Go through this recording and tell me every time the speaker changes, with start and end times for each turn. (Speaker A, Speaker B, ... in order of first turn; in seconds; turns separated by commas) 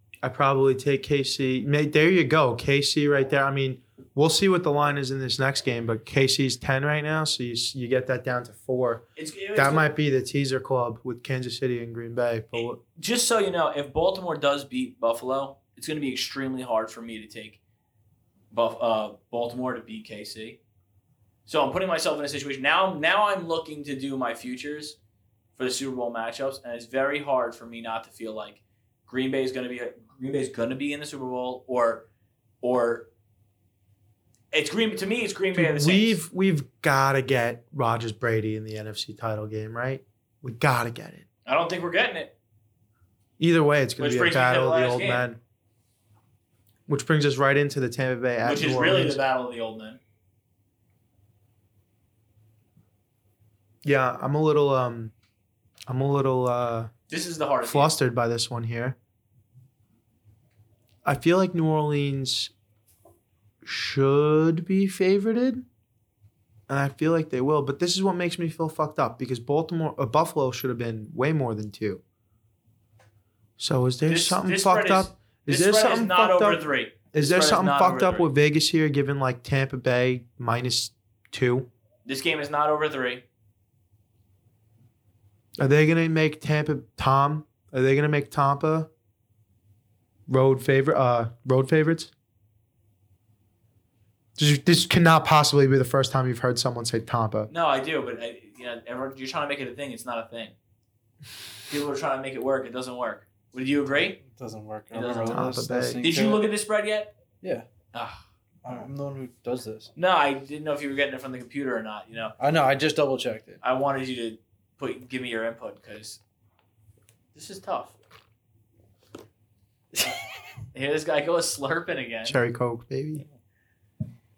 Speaker A: 0.2-12.8, Speaker B: 9.2-9.9, Speaker B: 12.6-17.6, Speaker B: 18.5-20.6, Speaker B: 21.4-25.0, Speaker B: 25.6-32.1, Speaker B: 32.6-33.1, Speaker B: 34.5-36.2, Speaker A: 35.5-41.2, Speaker B: 41.5-42.3, Speaker A: 43.4-45.4, Speaker B: 44.0-45.3, Speaker A: 46.9-49.2, Speaker B: 48.4-50.0, Speaker A: 53.8-55.1, Speaker A: 55.9-56.9, Speaker B: 57.1-57.9, Speaker A: 57.6-59.0, Speaker A: 61.0-62.5, Speaker A: 63.6-65.6, Speaker A: 66.7-72.0, Speaker A: 73.6-81.7, Speaker B: 74.0-78.3, Speaker B: 82.0-83.2, Speaker A: 85.6-88.9, Speaker A: 90.3-92.1, Speaker A: 94.4-97.5, Speaker B: 97.5-100.5, Speaker B: 101.7-104.2, Speaker C: 104.2-106.5, Speaker B: 104.9-107.1, Speaker A: 105.3-106.0, Speaker B: 107.9-108.2, Speaker C: 108.6-109.9, Speaker B: 110.0-112.3, Speaker C: 112.4-113.6, Speaker B: 113.6-116.2, Speaker B: 117.3-118.0, Speaker B: 120.7-122.4, Speaker A: 122.2-123.2